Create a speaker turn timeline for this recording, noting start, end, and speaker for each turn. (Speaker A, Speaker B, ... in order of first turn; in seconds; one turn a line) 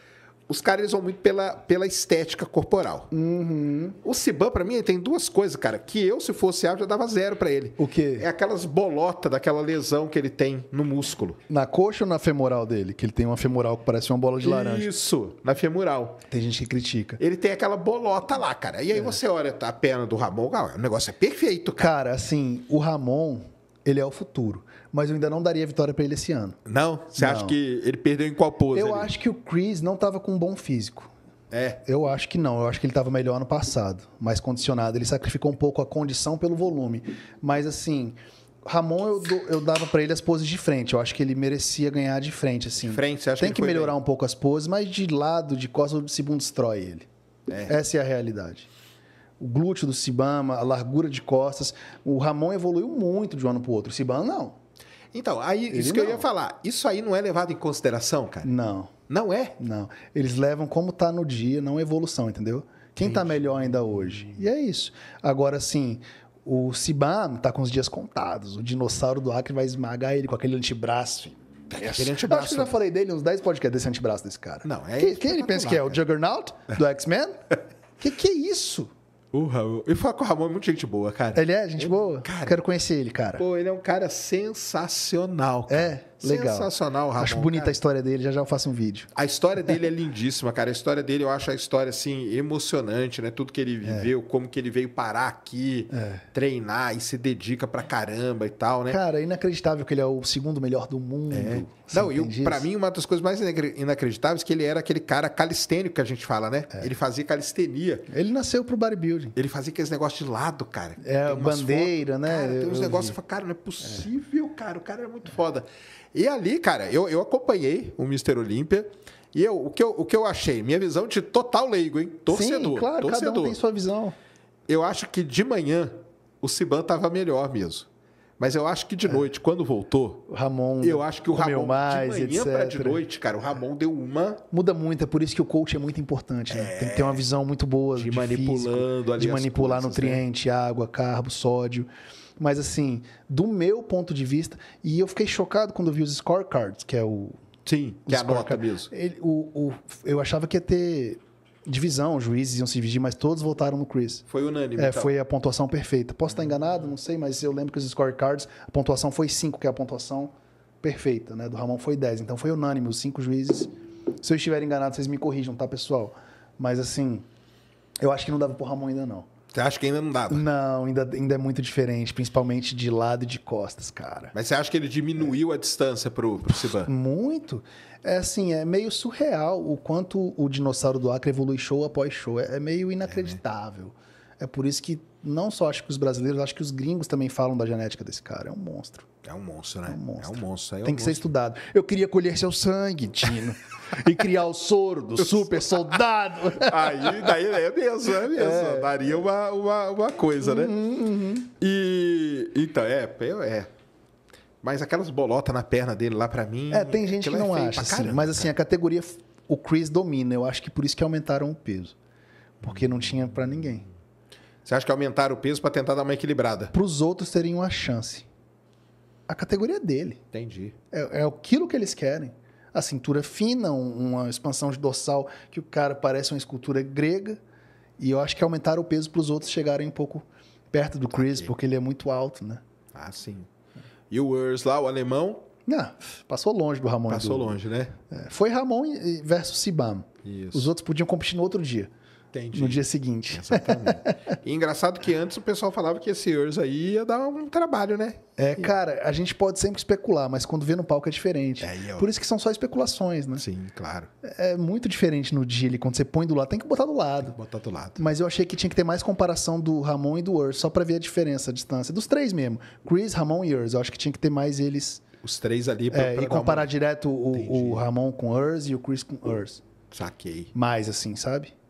Speaker A: 0.5-3.1
Speaker B: 3.1-4.0
Speaker A: 4.0-11.4
Speaker B: 7.8-8.3
Speaker B: 11.5-14.9
Speaker A: 14.4-16.2
Speaker B: 16.3-17.2
Speaker A: 17.2-21.9
Speaker B: 21.8-26.6
Speaker A: 26.6-29.1
Speaker B: 27.2-27.6
Speaker B: 28.7-31.1
Speaker A: 31.5-31.8
Speaker B: 31.8-47.1
Speaker A: 42.8-44.0
Speaker A: 47.5-47.8
Speaker B: 47.7-48.7
Speaker B: 49.4-54.6
Speaker A: 55.1-58.5
Speaker B: 55.7-56.3
Speaker B: 58.4-58.9
Speaker A: 59.1-59.6
Speaker B: 59.6-78.9
Speaker A: 63.0-64.4
Speaker A: 71.7-72.8
Speaker A: 74.6-76.0
Speaker A: 79.3-82.6
Speaker B: 81.3-83.4
Speaker A: 83.4-87.8
Speaker B: 85.7-89.1
Speaker A: 89.1-99.0
Speaker B: 93.8-94.1
Speaker B: 95.9-96.2
Speaker B: 98.9-102.7
Speaker A: 101.3-108.1
Speaker B: 108.1-109.3
Speaker A: 109.3-123.6
Speaker B: 111.0-113.2
Speaker B: 122.3-124.2
Speaker A: 124.7-127.9
Speaker A: 128.4-130.2
Speaker B: 130.3-133.0
Speaker A: 130.8-134.4
Speaker B: 134.5-147.4
Speaker A: 136.5-137.2
Speaker A: 137.9-140.2
Speaker A: 147.7-148.9
Speaker B: 148.1-154.2
Speaker A: 154.3-155.1
Speaker B: 154.8-167.3
Speaker B: 168.0-169.3
Speaker A: 169.5-170.4
Speaker B: 170.3-174.3
Speaker A: 174.3-176.9
Speaker B: 176.7-189.1
Speaker A: 183.1-183.4
Speaker A: 189.2-191.2
Speaker B: 189.9-197.4
Speaker A: 196.6-200.7
Speaker B: 198.2-199.2
Speaker B: 200.4-201.5
Speaker A: 201.6-203.7
Speaker A: 204.6-208.5
Speaker B: 206.7-212.0
Speaker B: 212.6-213.9
Speaker A: 214.7-216.7
Speaker B: 216.7-218.3
Speaker B: 219.3-220.2
Speaker A: 220.3-220.8
Speaker B: 220.9-227.4
Speaker B: 228.0-232.6
Speaker A: 231.1-231.5
Speaker A: 232.9-233.5
Speaker A: 234.1-235.4
Speaker B: 235.7-241.9
Speaker A: 237.1-237.9
Speaker A: 240.2-240.7
Speaker A: 242.3-248.7
Speaker B: 242.5-244.2
Speaker B: 248.4-253.4
Speaker A: 251.6-252.1
Speaker A: 253.4-254.1
Speaker B: 254.2-257.4
Speaker A: 257.2-258.0
Speaker B: 258.0-265.1
Speaker A: 265.2-266.7
Speaker B: 265.9-269.6
Speaker A: 267.3-267.9
Speaker A: 269.9-270.5
Speaker B: 270.5-271.5